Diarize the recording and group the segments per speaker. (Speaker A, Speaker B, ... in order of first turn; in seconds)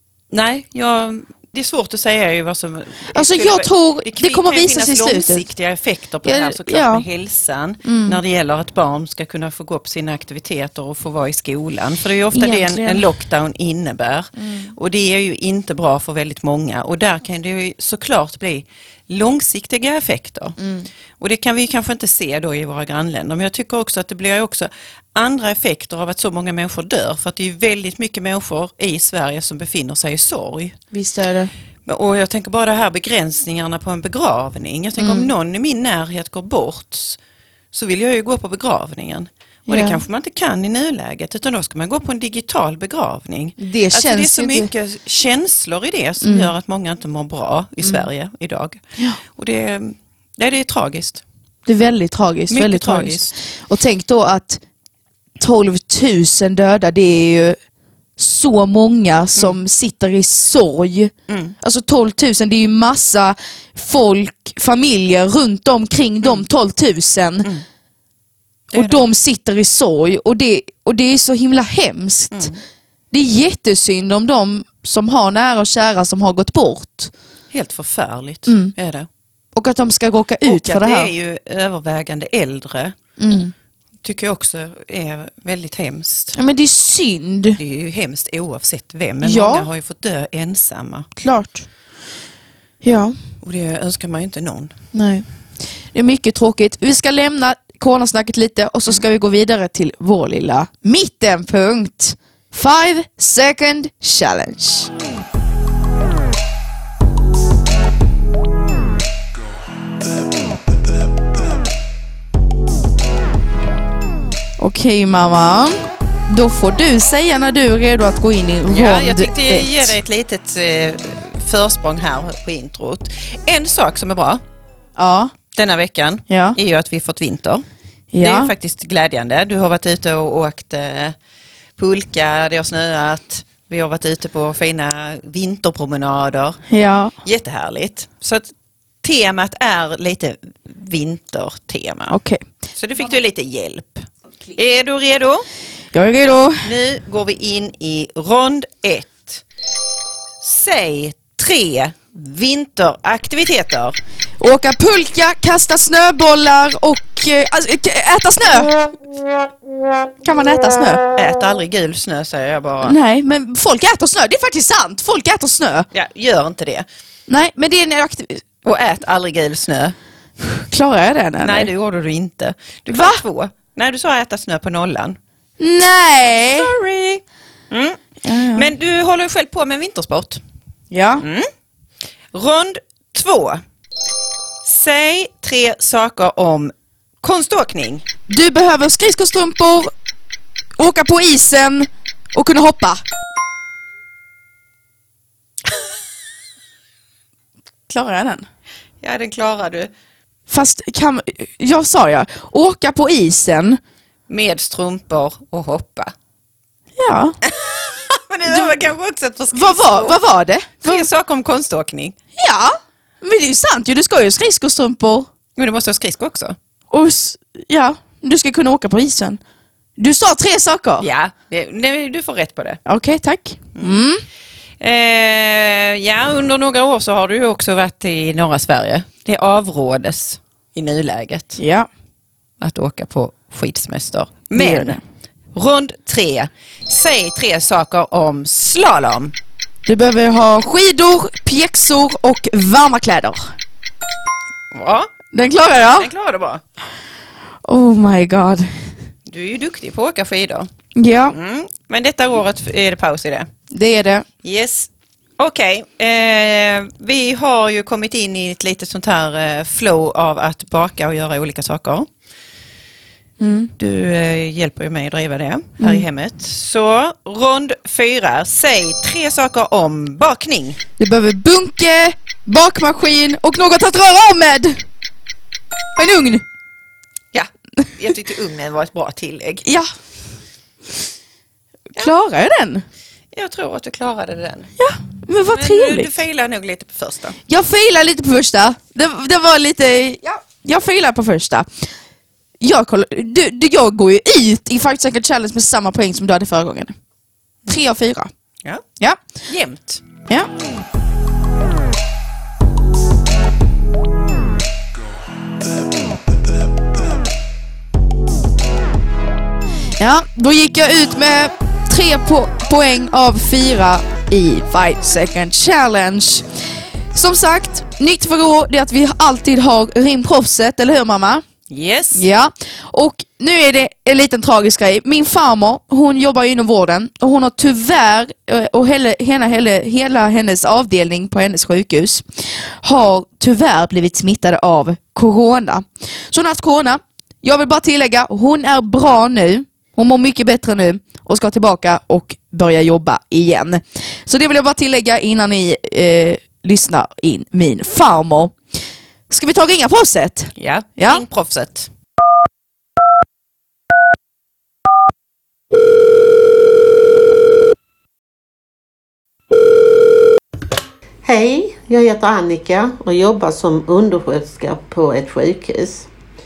Speaker A: 0.3-20.6, 21.2-30.8, 31.9-37.2, 37.7-51.2, 52.5-53.3, 61.3-61.5, 68.7-69.0, 72.3-72.6, 77.5-79.1, 80.4-82.9, 84.0-86.3, 87.6-91.1, 93.4-94.7, 118.7-124.4, 125.5-127.6, 128.2-131.1, 131.8-136.6, 137.2-138.5, 139.0-142.2, 142.7-145.4, 146.6-149.4, 150.4-154.0, 161.2-162.9, 165.9-166.8, 168.6-169.9, 171.4-175.2, 176.3-178.0, 178.5-180.4, 181.2-181.5, 182.3-183.6, 184.6-188.1, 199.0-199.9, 204.3-206.1, 207.4-210.1, 210.8-212.2, 215.6-216.6, 221.0-222.8, 223.8-224.0, 224.8-231.6, 232.6-235.0, 235.5-239.3, 244.7-245.1, 245.8-246.6, 249.3-250.7, 251.3-253.5, 254.4-262.1, 263.8-270.8, 277.3-279.6, 283.3-284.7, 285.5-287.4, 299.5-300.0, 321.7-322.2, 350.6-351.9
Speaker B: 3.1-5.4, 6.2-7.0, 7.8-8.2, 12.3-13.1, 14.3-14.7, 20.6-20.9, 30.9-31.5, 35.0-35.3, 39.7-40.0, 43.6-44.7, 46.2-46.5, 47.8-48.1, 51.6-54.6, 55.4-57.6, 58.2-67.5, 68.7-72.5, 73.1-77.1, 78.5-78.7, 79.5-81.1, 83.2-83.5, 86.3-87.6, 89.2-89.7, 91.2-91.7, 92.8-93.2, 94.9-95.3, 95.9-104.9, 114.6-119.9, 125.0-125.3, 126.3-126.6, 128.1-128.5, 136.7-137.1, 142.1-142.4, 145.9-146.7, 154.4-158.9, 160.2-161.0, 162.8-165.9, 167.3-168.4, 170.7-171.7, 172.9-173.2, 175.6-176.7, 178.2-178.7, 180.9-181.2, 188.3-189.9, 190.8-193.0, 197.9-198.4, 200.5-203.8, 207.0-207.4, 208.4-208.8, 209.5-211.1, 212.4-215.3, 216.9-219.4, 220.0-221.1, 222.8-224.2, 231.6-231.9, 234.5-235.0, 239.8-243.5, 245.3-246.1, 247.6-248.9, 250.9-251.3, 253.7-254.2, 263.4-263.7, 265.8-266.0, 271.0-274.8, 275.9-276.4, 281.9-282.8, 284.8-286.1, 287.5-291.7, 292.6-296.9, 297.7-298.3, 310.0-316.4, 317.1-321.4, 322.1-348.6, 349.3-351.2
Speaker C: 361.2-366.1